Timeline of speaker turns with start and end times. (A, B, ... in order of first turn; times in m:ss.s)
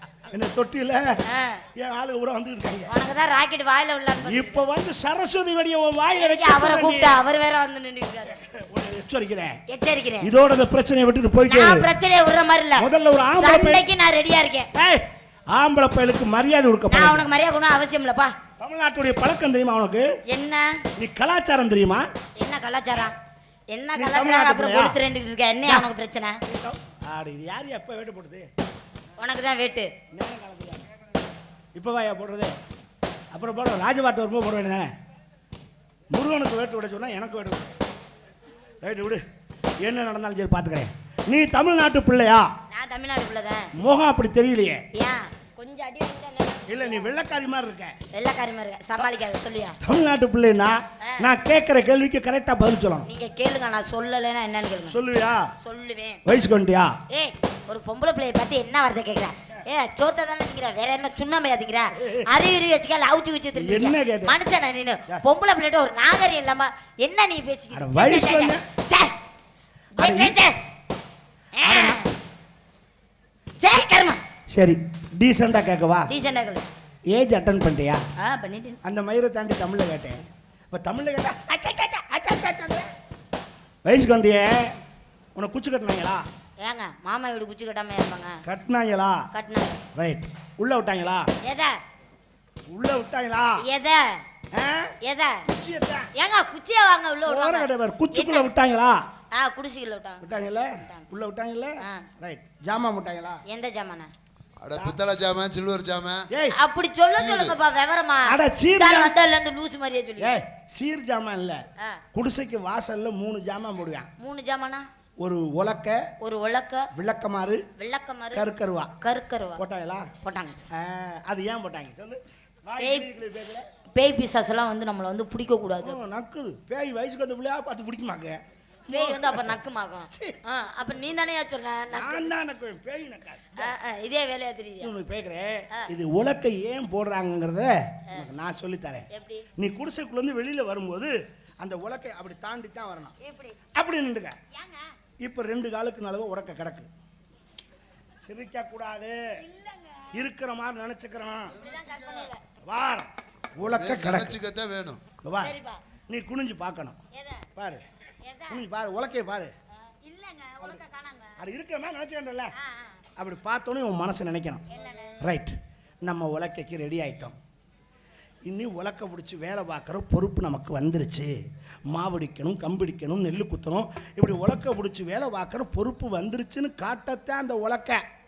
0:00.3-0:01.2 A
0:01.3-0:01.6 B
0:01.7-0:02.9 A
0:02.9-0:04.6 B
0:04.2-0:07.2 A
0:06.1-0:08.4 B
0:08.3-0:09.6 A
0:09.7-0:10.3 B
0:10.2-0:11.9 A
0:11.4-0:14.7 B
0:12.8-0:13.8 A
0:14.7-0:17.3 A
0:16.9-0:18.3 B
0:18.6-0:20.1 A
0:20.3-0:20.8 B
0:21.0-0:22.0 A
0:22.4-0:23.1 B
0:23.7-0:26.4 B
0:23.9-0:25.0 A
0:26.4-0:28.5 A
0:29.2-0:29.9 B
0:30.1-0:30.9 A
0:31.7-0:32.6 A
0:33.3-0:34.9 A
0:36.1-0:37.8 A
0:38.8-0:39.2 A
0:39.8-0:42.5 A
0:42.7-0:43.7 B
0:43.8-0:44.8 A
0:44.9-0:47.0 B
0:46.7-0:48.0 A
0:48.1-0:49.8 B
0:49.8-0:53.1 A
0:51.0-0:51.3 B
0:53.0-0:55.0 B
0:54.8-0:55.5 A
0:55.6-0:56.2 B
0:56.2-0:57.0 A
0:57.1-1:09.1 B
1:02.0-1:02.3 A
1:03.5-1:04.4 A
1:07.7-1:08.6 A
1:10.0-1:10.6 B
1:10.0-1:10.4 A
1:11.6-1:12.1 B
1:11.6-1:12.0 A
1:13.6-1:14.2 B
1:14.5-1:16.1 A
1:16.1-1:16.6 B
1:17.1-1:18.0 A
1:18.2-1:18.8 B
1:18.8-1:22.8 A
1:23.8-1:24.8 A
1:25.3-1:26.2 A
1:26.6-1:28.4 B
1:28.4-1:29.2 A
1:29.3-1:29.8 B
1:29.9-1:31.3 A
1:31.4-1:31.8 B
1:32.7-1:33.6 A
1:33.6-1:34.2 B
1:34.5-1:34.9 A
1:35.0-1:35.4 B
1:35.5-1:36.1 A
1:36.1-1:38.5 B
1:37.2-1:39.0 A
1:39.3-1:41.0 B
1:40.2-1:43.4 A
1:43.5-1:44.1 B
1:44.6-1:46.3 C
1:46.3-1:46.6 A
1:46.5-1:50.4 B
1:47.2-1:47.6 C
1:48.2-1:49.1 A
1:50.2-1:51.6 A
1:52.1-1:54.1 A
1:54.2-1:54.9 B
1:55.2-1:56.0 A
1:56.2-1:56.9 B
1:56.9-1:57.6 A
1:57.8-1:58.5 B
1:58.3-1:58.9 A
1:59.0-1:59.6 B
1:59.6-2:00.1 A
2:00.2-2:00.6 B
2:00.7-2:03.6 A
2:02.8-2:03.1 B
2:03.8-2:06.0 B
2:05.8-2:09.6 A
2:08.9-2:12.3 B
2:11.9-2:13.7 A
2:13.6-2:14.9 B
2:14.8-2:23.1 A
2:19.1-2:19.4 B
2:23.2-2:23.6 B
2:23.7-2:24.4 A
2:24.5-2:24.8 B
2:25.2-2:26.9 A
2:28.2-2:29.2 A
2:29.4-2:30.1 B
2:30.1-2:31.6 A
2:31.5-2:32.4 B
2:32.6-2:34.4 A
2:33.7-2:35.0 C
2:35.2-2:35.5 A
2:35.4-2:35.8 B
2:36.1-2:37.0 A
2:37.1-2:37.4 B
2:37.5-2:37.8 A
2:38.2-2:38.6 B
2:38.5-2:39.5 A
2:39.8-2:41.4 B
2:41.4-2:42.5 A
2:42.5-2:43.0 B
2:43.2-2:44.6 A
2:44.7-2:45.1 B
2:45.2-2:47.4 A
2:48.4-2:51.3 A
2:51.9-2:58.0 A